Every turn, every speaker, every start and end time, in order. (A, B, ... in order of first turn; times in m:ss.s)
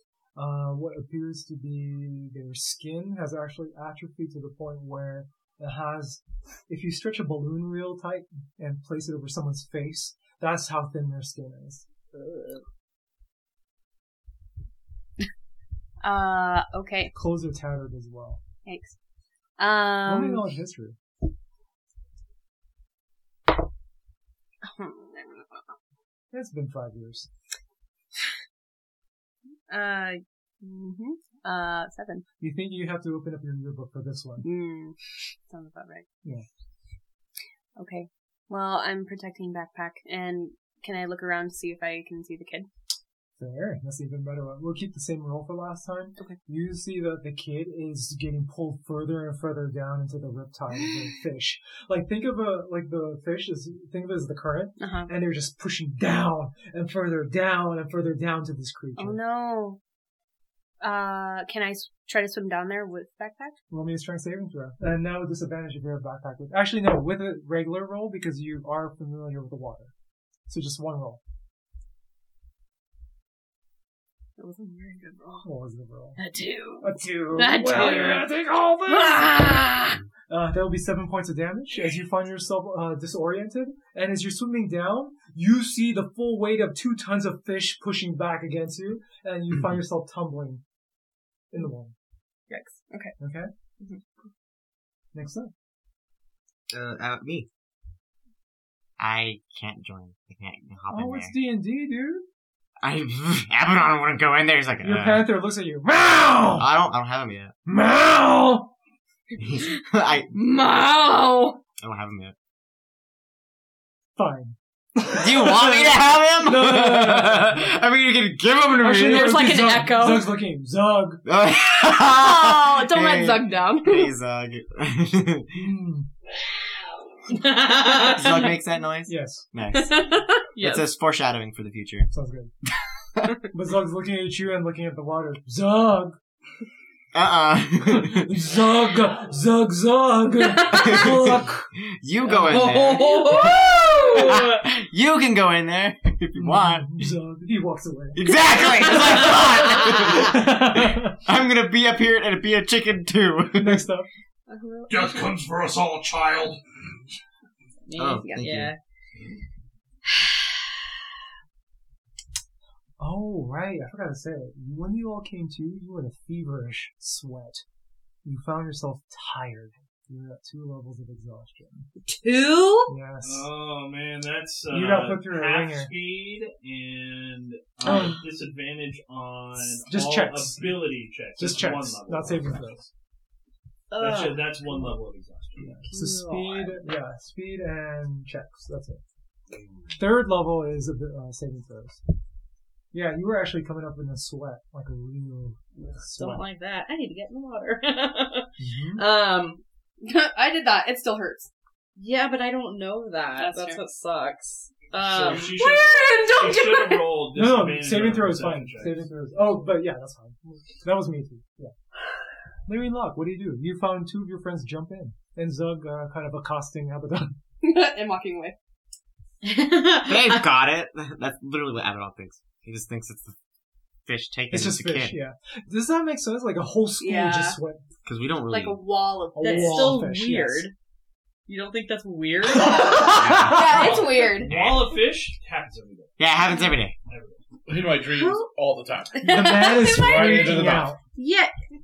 0:00.4-0:11.8 A
0:12.1-0:12.6 B
0:16.0-0:17.1 C
0:17.1-0:18.4 A
0:18.6-0:19.0 C
0:19.6-0:20.4 C
0:20.0-0:21.0 A
0:24.6-0:25.6 C
0:26.3-0:27.3 A
0:29.7-0:32.2 C
0:32.4-0:34.5 A
0:34.4-0:36.0 C
0:37.8-0:42.7 C
0:43.4-0:59.2 A
0:54.8-0:55.1 C
0:59.0-0:59.8 C
1:00.8-1:03.6 C
1:03.7-1:09.9 A
1:10.5-1:11.2 A
1:14.4-1:15.4 C
1:15.4-1:16.2 A
1:16.2-1:18.3 C
1:16.8-1:19.5 A
1:18.8-1:20.0 C
1:20.3-1:30.6 A
1:31.5-1:31.9 A
1:32.5-1:33.1 C
1:33.2-1:33.5 A
1:35.1-1:35.5 A
1:36.7-1:37.5 D
1:39.0-1:41.3 D
1:40.9-1:42.2 A
1:42.8-1:45.3 D
1:44.8-1:46.7 A
1:46.5-1:47.5 D
1:47.6-1:48.7 A
1:49.3-1:50.3 D
1:50.3-1:51.6 C
1:51.8-1:52.3 D
1:54.2-1:57.8 A
1:55.1-1:59.4 D
1:58.8-2:01.2 A
1:59.0-2:00.4 C
2:01.2-2:05.5 D
2:01.9-2:04.1 C
2:05.5-2:06.1 A
2:07.3-2:08.6 B
2:08.1-2:10.0 D
2:09.1-2:09.4 A
2:09.7-2:10.9 B
2:10.6-2:12.1 D
2:12.1-2:12.5 A
2:13.5-2:16.2 A
2:17.1-2:18.3 D
2:17.8-2:21.7 A
2:20.6-2:26.9 D
2:22.2-2:24.6 B
2:26.4-2:28.3 A
2:28.1-2:33.8 D
2:28.8-2:31.2 A
2:33.5-2:34.1 A
2:34.5-2:35.3 C
2:34.9-2:36.6 E
2:37.9-2:38.8 B
2:38.0-2:38.7 D
2:38.2-2:38.4 C
2:43.0-2:47.6 A
2:48.2-2:51.9 A
2:52.2-2:52.9 B
2:52.9-2:53.5 A
2:53.2-3:02.8 E
2:54.7-2:55.9 A
2:59.8-3:00.9 A
3:01.4-3:02.8 A
3:03.9-3:04.9 B
3:04.0-3:05.8 E
3:05.6-3:09.0 A
3:05.9-3:06.8 B
3:09.5-3:09.9 E
3:09.9-3:12.0 A
3:12.9-3:16.4 A
3:15.8-3:18.5 B
3:18.6-3:19.0 A
3:19.0-3:21.5 C
3:22.0-3:25.8 B
3:23.4-3:23.8 C
3:25.0-3:29.1 E
3:25.1-3:27.1 C
3:27.3-3:31.7 A
3:32.6-3:37.4 A
3:37.6-3:38.6 C
3:39.4-3:40.4 B
3:40.0-3:43.4 D
3:44.0-3:45.2 D
3:44.5-3:47.8 A
3:47.0-3:47.6 C
3:48.0-3:48.8 D
3:48.5-3:49.9 C
3:49.3-3:50.7 A
3:49.4-3:50.7 B
3:51.5-3:54.3 B
3:52.7-3:54.5 C
3:52.7-3:53.6 A
3:53.6-3:56.3 E
3:56.2-3:56.9 D
3:57.0-3:57.4 E
3:57.7-4:01.0 F
3:59.2-4:01.0 A
3:59.3-4:00.3 B
3:59.6-4:00.5 C
4:01.2-4:01.5 B